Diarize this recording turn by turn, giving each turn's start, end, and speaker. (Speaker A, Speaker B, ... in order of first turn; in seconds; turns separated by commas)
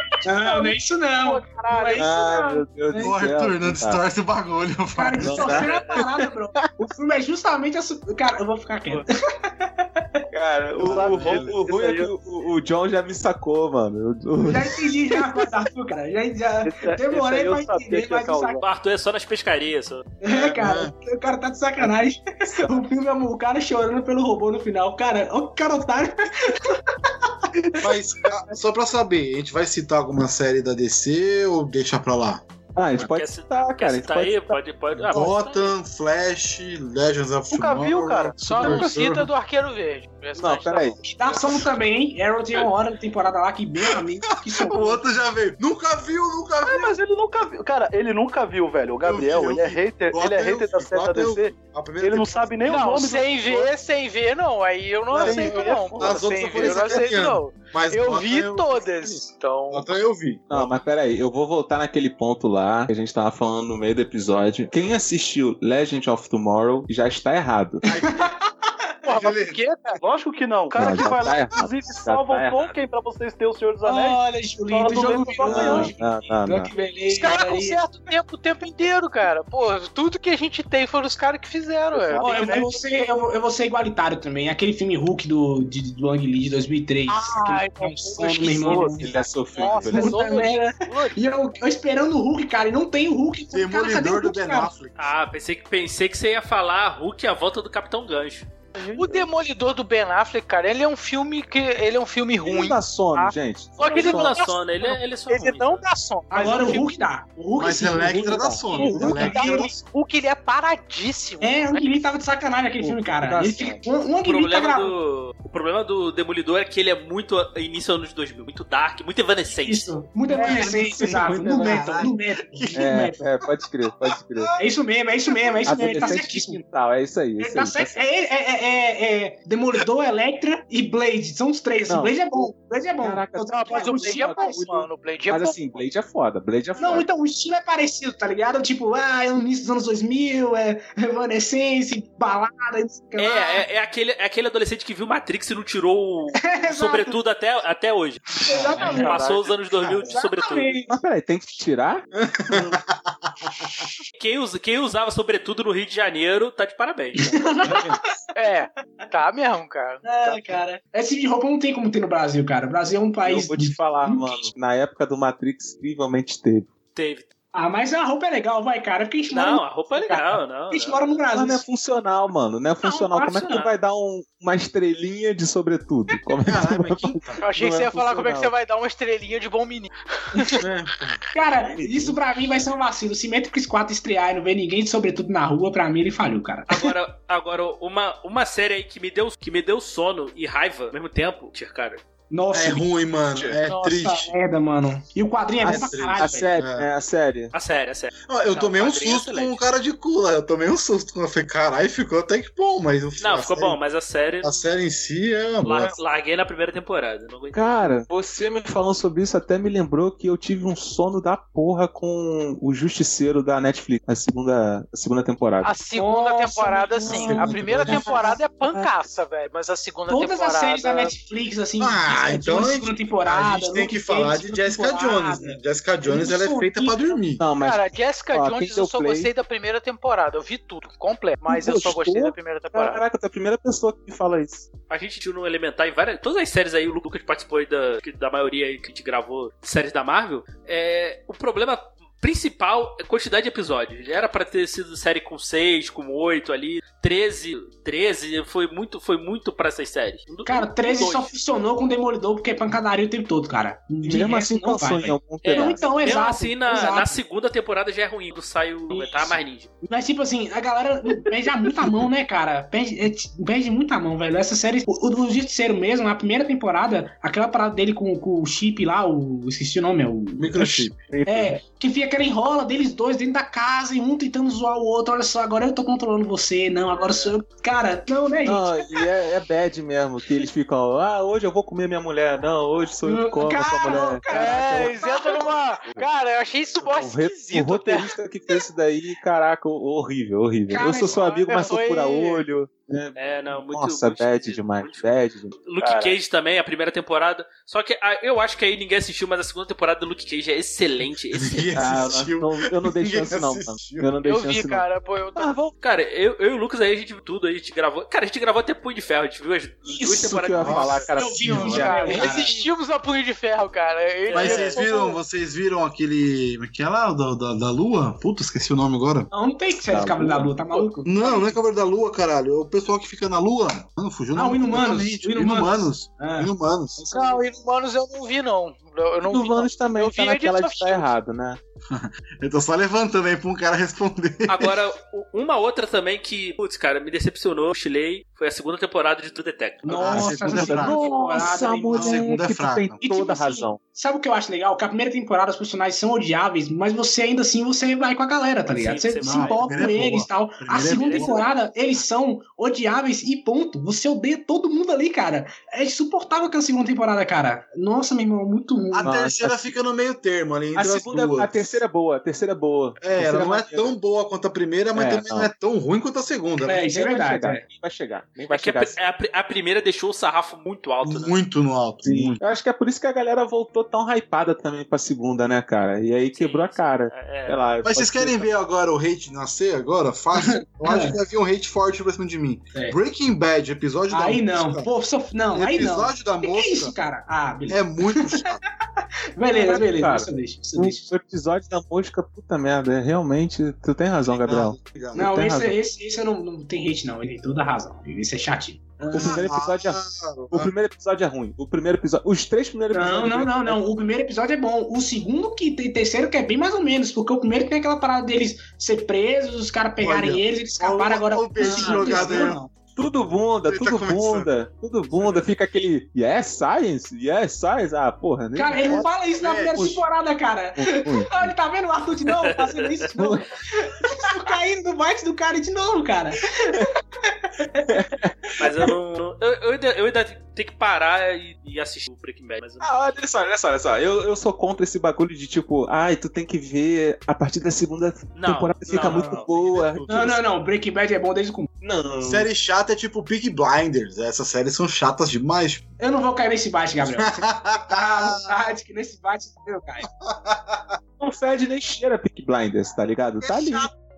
Speaker A: 0.2-3.2, Speaker B: 0.4-2.1, Speaker C: 1.9-4.0, Speaker D: 3.0-5.6, Speaker A: 4.9-10.2, Speaker C: 5.2-6.9, Speaker E: 5.6-6.0, Speaker C: 10.3-15.4, Speaker F: 10.7-12.1, Speaker D: 10.8-11.5, Speaker A: 14.4-18.6, Speaker F: 16.6-18.6, Speaker E: 18.6-20.1, Speaker A: 20.2-26.8, Speaker D: 20.3-20.9, Speaker D: 27.8-32.4, Speaker C: 32.7-34.6, Speaker E: 33.0-35.8, Speaker D: 35.1-39.3, Speaker F: 37.5-38.4, Speaker B: 38.4-41.4, Speaker C: 40.4-41.0, Speaker A: 41.1-45.0, Speaker D: 44.5-47.0, Speaker F: 46.6-53.7, Speaker D: 49.0-52.5, Speaker B: 52.6-59.9, Speaker D: 55.1-59.1, Speaker C: 56.0-56.9, Speaker D: 59.7-60.8, Speaker C: 60.5-67.9, Speaker D: 67.8-68.3, Speaker B: 69.0-70.0, Speaker D: 69.1-69.6, Speaker F: 70.0-75.9, Speaker C: 70.7-72.7, Speaker A: 73.8-77.8, Speaker C: 75.4-76.7, Speaker B: 77.1-82.7, Speaker F: 81.9-82.7, Speaker A: 82.1-89.0, Speaker B: 87.1-91.2, Speaker C: 88.6-90.5, Speaker A: 89.7-94.7, Speaker D: 93.5-95.0, Speaker E: 95.0-98.5, Speaker B: 98.8-107.0, Speaker F: 99.0-99.2, Speaker C: 102.4-104.4, Speaker E: 103.8-105.8, Speaker A: 106.3-109.7, Speaker D: 107.6-109.8, Speaker C: 108.1-109.5, Speaker B: 108.9-111.8, Speaker A: 111.4-114.9, Speaker C: 112.8-113.8, Speaker E: 114.2-119.9, Speaker A: 119.6-123.2, Speaker C: 120.4-122.1, Speaker D: 120.4-122.9, Speaker C: 122.7-124.5, Speaker D: 124.0-124.5, Speaker A: 124.6-126.6, Speaker C: 125.6-128.0, Speaker A: 127.4-134.5, Speaker C: 131.9-132.4, Speaker C: 133.0-137.1, Speaker B: 133.5-135.8, Speaker A: 136.8-143.6, Speaker E: 143.2-150.8, Speaker A: 146.4-147.2, Speaker A: 148.4-149.3, Speaker F: 148.8-150.1, Speaker A: 150.0-151.0, Speaker C: 150.9-152.0, Speaker D: 152.2-153.7, Speaker E: 154.1-157.8, Speaker A: 157.2-158.0, Speaker B: 158.3-160.6, Speaker A: 160.0-164.5, Speaker C: 163.2-166.7, Speaker E: 166.9-167.3, Speaker A: 167.5-171.6, Speaker E: 169.3-171.1, Speaker C: 171.3-178.5, Speaker A: 172.8-173.7, Speaker D: 176.4-177.4, Speaker B: 177.4-180.6, Speaker D: 180.6-181.2, Speaker A: 181.3-186.8, Speaker C: 181.7-182.6, Speaker E: 186.7-192.0, Speaker A: 192.3-192.9, Speaker D: 192.5-194.3, Speaker C: 193.3-193.6, Speaker A: 193.7-196.5, Speaker D: 195.6-196.9, Speaker C: 195.6-197.5, Speaker E: 197.5-199.6, Speaker D: 198.3-203.8, Speaker E: 203.2-204.6, Speaker D: 204.4-205.9, Speaker E: 205.6-208.0, Speaker C: 207.5-215.7, Speaker B: 215.6-221.1, Speaker A: 215.9-218.2, Speaker D: 217.1-218.4, Speaker C: 217.2-218.9, Speaker A: 220.1-227.2, Speaker D: 221.8-227.4, Speaker C: 227.4-229.3, Speaker B: 227.6-233.0, Speaker C: 231.5-234.7, Speaker E: 234.9-251.3, Speaker A: 250.4-257.2, Speaker C: 254.0-256.1, Speaker E: 255.4-259.7, Speaker A: 258.9-279.0, Speaker D: 270.4-271.1, Speaker C: 271.1-271.6, Speaker C: 278.4-286.1, Speaker A: 283.0-285.5, Speaker B: 284.3-288.6, Speaker C: 286.8-295.6, Speaker B: 290.7-292.4, Speaker A: 290.8-291.1, Speaker E: 293.1-301.7, Speaker F: 295.8-296.2, Speaker D: 301.3-304.1, Speaker C: 301.7-304.8, Speaker B: 304.2-305.6, Speaker C: 305.4-305.7, Speaker E: 305.8-311.1, Speaker C: 310.0-312.5, Speaker D: 310.6-311.6, Speaker A: 311.1-312.6, Speaker B: 311.4-315.2, Speaker E: 314.3-314.8, Speaker D: 314.3-319.3, Speaker A: 319.3-321.6, Speaker C: 319.8-320.9, Speaker D: 321.0-327.0, Speaker A: 324.3-327.4, Speaker B: 327.1-331.1, Speaker C: 329.3-331.6, Speaker D: 331.9-334.8, Speaker E: 334.5-340.0, Speaker A: 339.9-342.4, Speaker D: 339.9-341.0, Speaker C: 340.0-343.8, Speaker D: 341.9-343.0, Speaker A: 343.0-359.1, Speaker E: 348.7-350.0, Speaker D: 349.2-351.4, Speaker E: 350.7-351.5, Speaker D: 358.9-361.8, Speaker C: 359.0-359.7, Speaker C: 360.7-363.9, Speaker D: 363.0-366.9, Speaker C: 364.9-365.5, Speaker A: 366.6-367.6, Speaker C: 366.9-369.0, Speaker E: 368.5-371.4, Speaker D: 371.0-372.4, Speaker C: 372.0-378.5, Speaker E: 376.3-377.7, Speaker D: 377.8-384.9, Speaker A: 380.4-381.2, Speaker A: 384.1-388.6, Speaker D: 385.5-386.9, Speaker D: 387.7-388.6, Speaker A: 389.4-391.1, Speaker C: 389.5-395.8, Speaker D: 394.3-395.3, Speaker A: 395.1-399.5, Speaker C: 399.1-403.8, Speaker D: 399.1-400.7, Speaker A: 402.9-412.6, Speaker D: 410.0-412.7, Speaker C: 411.6-419.1, Speaker D: 413.6-414.5, Speaker D: 415.1-415.4, Speaker A: 418.5-428.0, Speaker D: 418.8-419.9, Speaker C: 420.8-421.5, Speaker E: 422.3-423.1, Speaker C: 423.2-423.4, Speaker C: 427.9-428.6, Speaker E: 428.6-432.9, Speaker C: 432.8-440.4, Speaker E: 438.3-439.5, Speaker D: 439.0-440.4, Speaker A: 440.1-441.7, Speaker C: 441.8-442.5, Speaker D: 442.2-445.9, Speaker A: 446.0-450.1, Speaker D: 447.0-448.6, Speaker D: 450.2-451.0, Speaker C: 451.2-453.9, Speaker D: 453.4-453.9